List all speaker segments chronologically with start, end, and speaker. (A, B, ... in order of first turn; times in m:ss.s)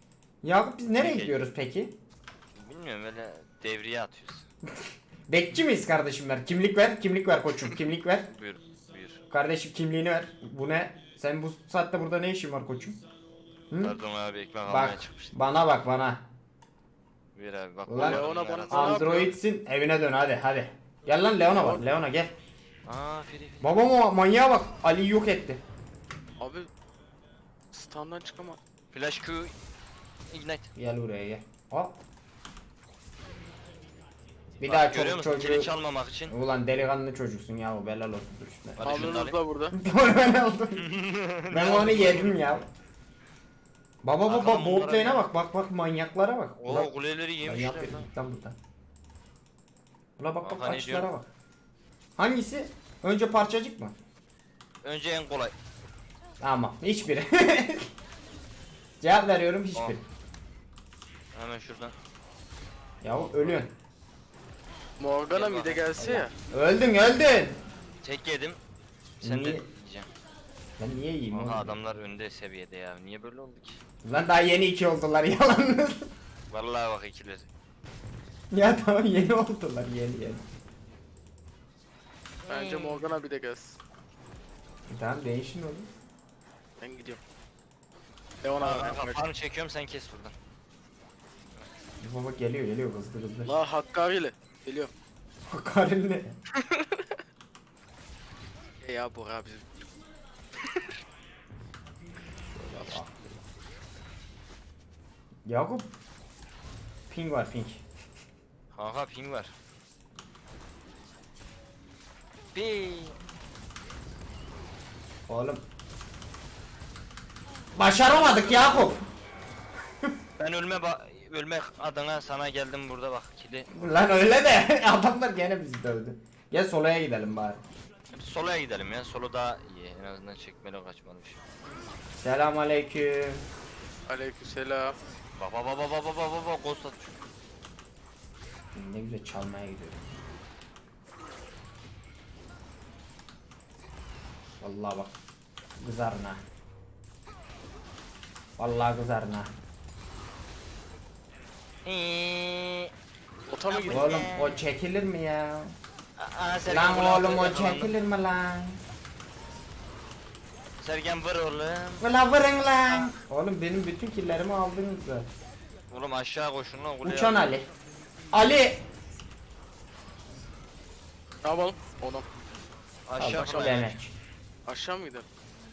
0:00.4-0:02.0 A
0:01.0-0:01.4 B
0:02.6-0:04.4 B
0:05.3-0:08.3 A
0:08.3-0:09.2 B
0:09.3-0:13.0 A
0:13.7-0:14.0 A
0:13.8-0:15.4 B
0:14.7-0:16.2 A
0:17.4-0:19.3 B
0:17.9-0:22.3 A
0:18.0-0:19.3 C
0:21.5-0:21.8 C
0:22.9-0:23.7 B
0:23.6-0:25.6 A
0:26.4-0:26.7 C
0:27.7-0:28.6 C
0:28.9-0:29.5 B
0:30.3-0:30.7 B
0:30.8-0:32.0 A
0:34.6-0:35.7 A
0:34.7-0:36.3 B
0:36.3-0:39.2 A
0:38.8-0:39.4 B
0:38.8-0:39.8 C
0:39.7-0:40.9 A
0:40.8-0:42.3 B
0:41.5-0:42.7 A
0:44.0-0:48.6 A
0:44.3-0:45.3 B
0:46.6-0:48.1 B
0:50.2-0:51.3 A
0:50.4-0:51.1 B
0:52.2-0:54.0 A
0:54.8-0:55.6 B
0:56.4-0:57.9 A
0:59.0-1:00.0 A
1:01.4-1:02.0 B
1:03.0-1:03.7 A
1:05.0-1:06.3 C
1:05.3-1:05.9 B
1:06.0-1:07.6 A
1:08.0-1:08.6 B
1:09.2-1:10.1 B
1:09.2-1:09.6 A
1:10.8-1:11.8 A
1:11.3-1:13.8 B
1:14.0-1:16.1 A
1:16.5-1:17.5 B
1:18.5-1:20.5 A
1:22.5-1:23.1 B
1:22.5-1:23.8 C
1:24.9-1:25.9 A
1:26.8-1:27.2 C
1:28.4-1:29.3 C
1:28.6-1:30.4 B
1:32.0-1:33.5 A
1:33.4-1:34.9 C
1:35.5-1:36.4 A
1:36.6-1:37.1 C
1:38.8-1:39.8 C
1:40.6-1:40.8 C
1:42.5-1:43.5 A
1:45.5-1:45.9 A
1:47.1-1:47.8 A
1:48.7-1:49.5 B
1:52.5-1:53.2 B
1:55.3-1:55.6 A
1:57.8-1:59.0 A
1:58.1-1:58.9 B
2:00.4-2:03.7 B
2:03.7-2:07.6 A
2:08.1-2:11.4 B
2:12.2-2:13.4 A
2:14.1-2:15.0 C
2:15.4-2:17.1 B
2:18.8-2:20.1 A
2:24.6-2:25.1 A
2:25.8-2:26.4 A
2:28.6-2:29.5 A
2:31.8-2:32.9 B
2:33.5-2:34.2 C
2:33.7-2:34.6 B
2:33.9-2:35.7 A
2:36.2-2:37.9 B
2:36.6-2:38.8 A
2:40.8-2:42.0 B
2:42.0-2:45.3 A
2:45.9-2:47.5 B
2:47.0-2:47.7 A
2:48.3-2:48.8 A
2:51.4-2:52.3 C
2:53.1-2:54.0 B
2:53.2-2:54.2 A
2:53.4-2:53.8 C
2:54.7-2:55.3 C